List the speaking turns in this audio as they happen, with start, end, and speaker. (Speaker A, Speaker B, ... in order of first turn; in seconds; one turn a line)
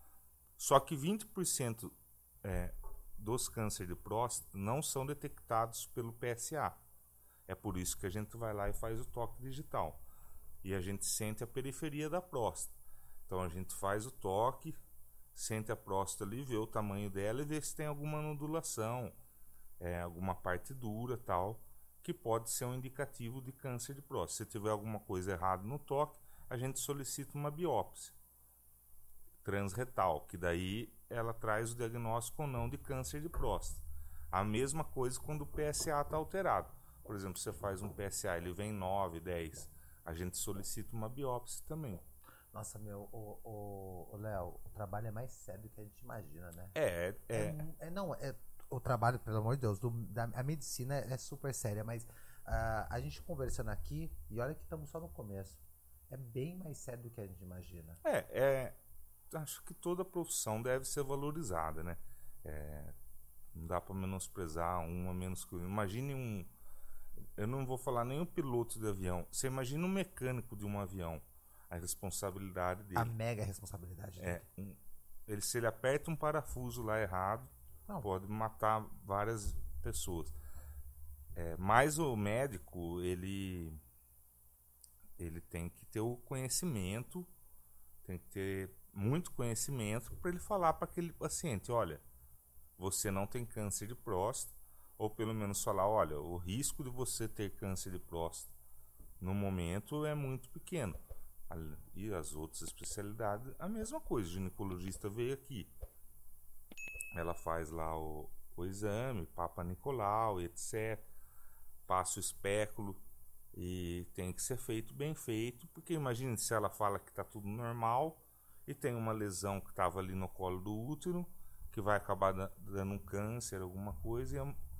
Speaker A: 0.6-6.8
Speaker A: 7.5-10.0
Speaker A: 10.6-12.7
Speaker A: 13.3-14.8
Speaker A: 15.3-19.1
Speaker A: 19.8-28.1
Speaker A: 29.4-42.0
Speaker B: 42.5-46.7
Speaker A: 46.7-47.6
Speaker B: 47.3-58.0
Speaker A: 58.0-58.8
Speaker A: 59.3-62.9
Speaker A: 63.5-66.5
Speaker A: 67.4-73.1
Speaker B: 72.9-74.4
Speaker A: 74.2-77.5
Speaker A: 78.0-80.3
Speaker A: 81.3-83.8
Speaker A: 85.2-87.3
Speaker A: 88.0-92.0
Speaker A: 92.8-98.5
Speaker A: 99.2-101.0
Speaker A: 101.5-105.7
Speaker A: 107.1-111.0
Speaker A: 111.9-113.0
Speaker A: 113.5-124.5